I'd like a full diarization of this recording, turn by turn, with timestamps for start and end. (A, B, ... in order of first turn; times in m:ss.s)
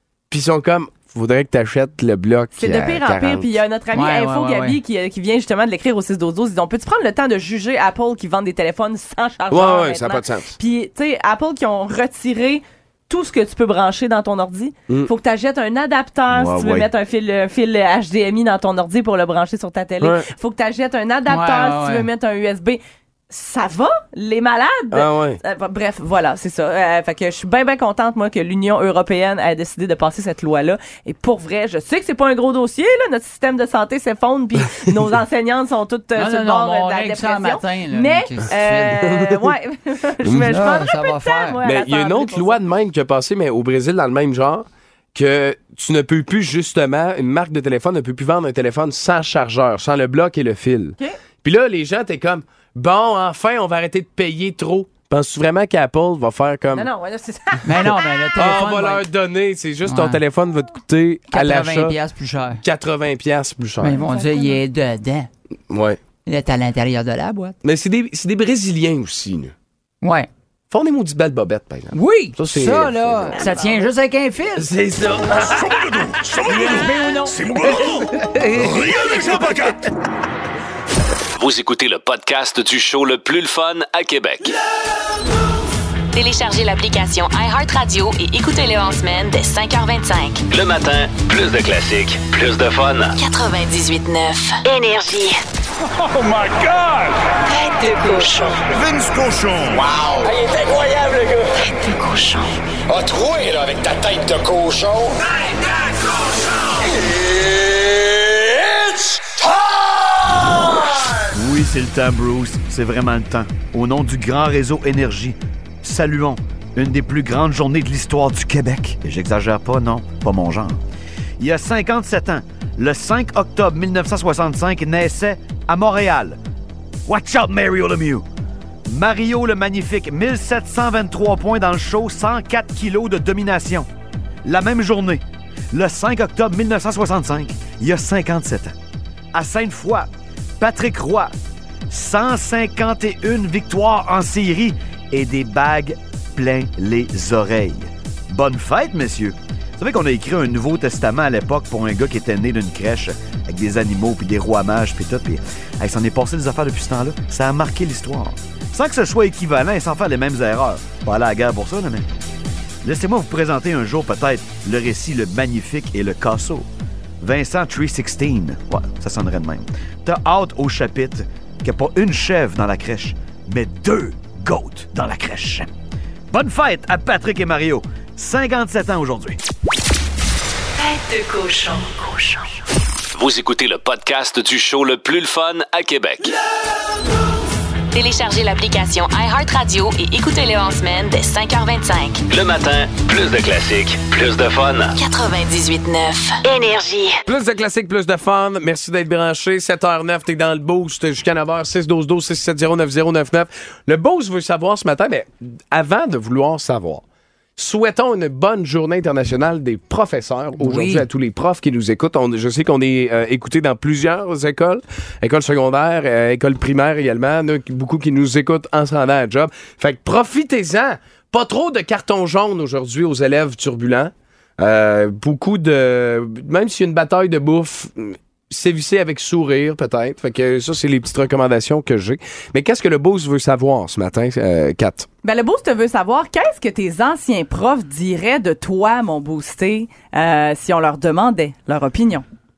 0:00.3-0:03.5 A
0:02.6-0:42.6 B
0:03.9-0:04.8 C
0:09.5-0:10.6 A
0:16.3-0:16.9 D
0:20.0-0:20.3 A
0:21.3-0:22.0 C
0:24.9-0:25.4 A
0:36.2-0:39.0 C
0:39.1-0:39.4 A
0:40.2-0:40.6 A
0:40.4-0:41.6 C
0:41.6-0:56.9 A
0:56.7-0:58.0 B
0:57.6-0:59.0 C
0:58.4-1:02.0 A
0:59.8-1:00.2 C
1:01.3-1:02.6 C
1:02.6-1:04.0 A
1:03.8-1:05.3 C
1:04.0-1:04.6 B
1:05.7-1:06.0 A
1:06.2-1:07.6 C
1:07.6-1:09.5 A
1:10.0-1:10.3 C
1:10.7-1:13.4 A
1:11.9-1:14.7 C
1:14.6-1:16.0 A
1:15.4-1:19.9 E
1:16.5-1:17.4 C
1:17.7-1:18.8 A
1:21.3-1:24.5 F
1:26.1-1:30.4 G
1:30.5-1:33.2 F
1:33.2-1:35.4 G
1:36.1-1:37.1 E
1:37.5-1:38.6 G
1:38.6-1:41.3 E
1:41.6-1:42.5 G
1:42.9-1:45.2 E
1:47.1-1:49.4 E
1:51.3-2:00.8 D
2:01.4-2:06.4 D
2:07.0-2:08.2 D
2:08.9-2:13.9 D
2:14.4-2:18.7 D
2:19.3-2:20.1 D
2:20.6-2:21.3 D
2:21.9-2:42.0 D
2:42.8-2:46.7 D
2:47.2-2:55.7 D
2:56.3-2:59.4 D
3:00.8-3:02.4 G
3:03.1-3:06.3 F
3:07.9-3:12.2 G
3:12.3-3:15.0 F
3:14.9-3:17.2 G
3:17.3-3:27.0 A
3:27.6-3:55.1 A
3:30.6-3:31.1 C
3:55.2-4:02.2 B